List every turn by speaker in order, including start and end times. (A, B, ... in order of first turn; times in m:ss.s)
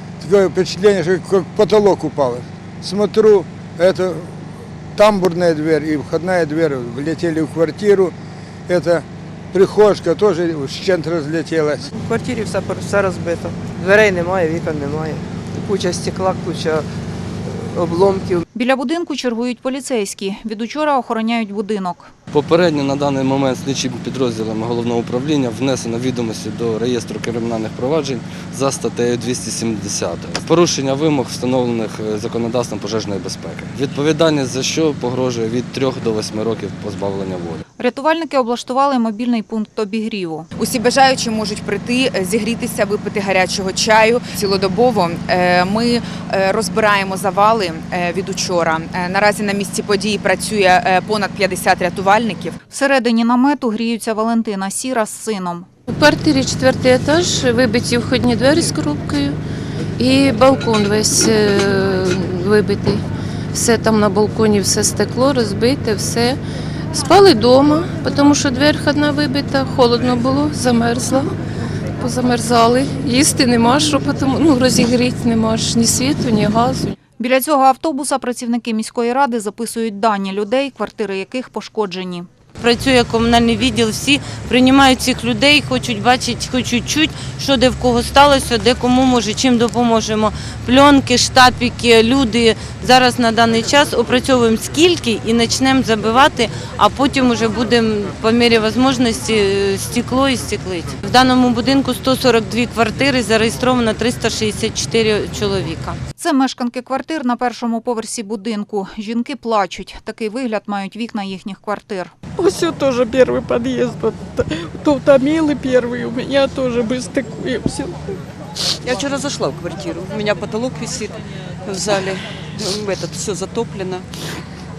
0:00.2-0:04.3 A
0:05.0-0:08.1 A
0:08.7-0:11.8 A
0:12.0-0:16.8 B
0:17.5-0:18.4 B
0:18.5-0:22.1 C
0:22.3-0:37.6 D
0:37.8-0:40.5 C
0:40.6-0:52.6 E
0:52.7-0:55.7 C
0:55.9-0:59.4 F
1:00.0-1:06.4 F
1:06.9-1:11.3 F
1:12.0-1:17.0 F
1:17.2-1:22.3 C
1:22.6-1:46.0 G
1:46.2-1:52.1 C
1:52.4-1:58.1 H
1:58.8-2:04.1 I